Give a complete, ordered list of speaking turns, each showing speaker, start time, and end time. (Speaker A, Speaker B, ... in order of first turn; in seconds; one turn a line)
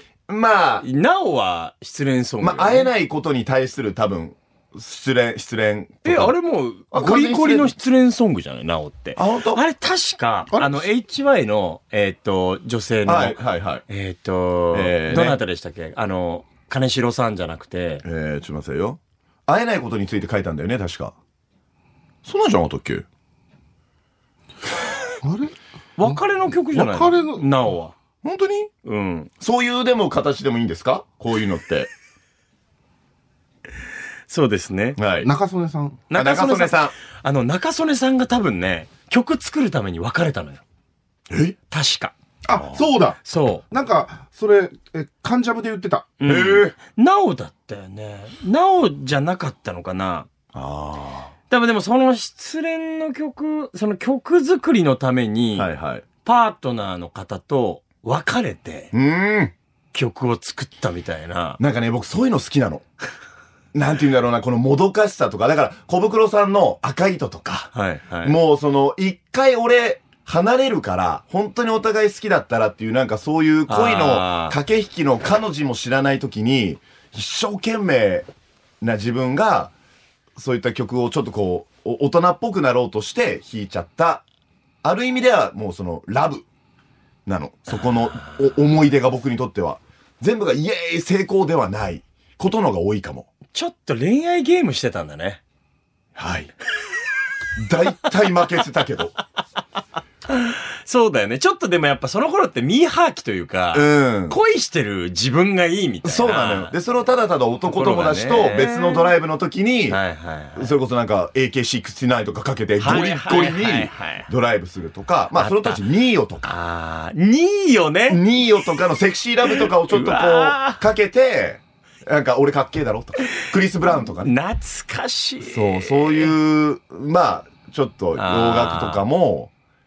Speaker A: 0.3-0.8
Speaker B: 0.8-2.9
Speaker A: 2.4-6.3
Speaker B: 6.0-18.0
Speaker A: 6.9-7.7
Speaker A: 9.2-9.6
Speaker A: 13.1-13.8
Speaker A: 14.7-15.4
Speaker A: 18.0-21.1
Speaker A: 22.2-23.0
Speaker C: 25.2-26.2
Speaker B: 26.0-27.9
Speaker C: 26.7-27.4
Speaker A: 28.2-28.7
Speaker B: 28.8-29.3
Speaker A: 29.4-31.9
Speaker B: 34.3-35.0
Speaker A: 35.0-35.3
Speaker C: 35.2-36.0
Speaker B: 36.1-40.6
Speaker A: 36.1-36.9
Speaker A: 41.3-41.6
Speaker B: 41.7-42.1
Speaker C: 42.5-46.1
Speaker B: 43.2-43.6
Speaker B: 46.2-50.3
Speaker A: 46.2-46.7
Speaker A: 50.5-51.3
Speaker B: 51.5-55.7
Speaker A: 55.5-56.0
Speaker B: 56.2-58.9
Speaker A: 58.9-59.5
Speaker B: 59.9-61.6
Speaker A: 61.6-62.9
Speaker A: 63.7-78.3
Speaker B: 67.7-68.4
Speaker B: 73.7-74.6
Speaker A: 78.8-79.7
Speaker A: 80.3-84.2
Speaker A: 84.8-86.4
Speaker A: 87.2-93.3
Speaker B: 93.5-95.4
Speaker A: 96.2-96.5
Speaker A: 97.6-99.2
Speaker B: 100.3-106.7
Speaker A: 103.7-104.4
Speaker A: 106.0-110.0
Speaker B: 107.7-109.1
Speaker B: 109.9-110.7
Speaker A: 110.5-116.5
Speaker B: 112.8-114.3
Speaker B: 115.3-115.8
Speaker B: 116.4-118.2
Speaker A: 118.1-124.3
Speaker B: 119.6-120.8
Speaker B: 124.2-126.3
Speaker A: 125.4-129.5
Speaker B: 128.2-129.0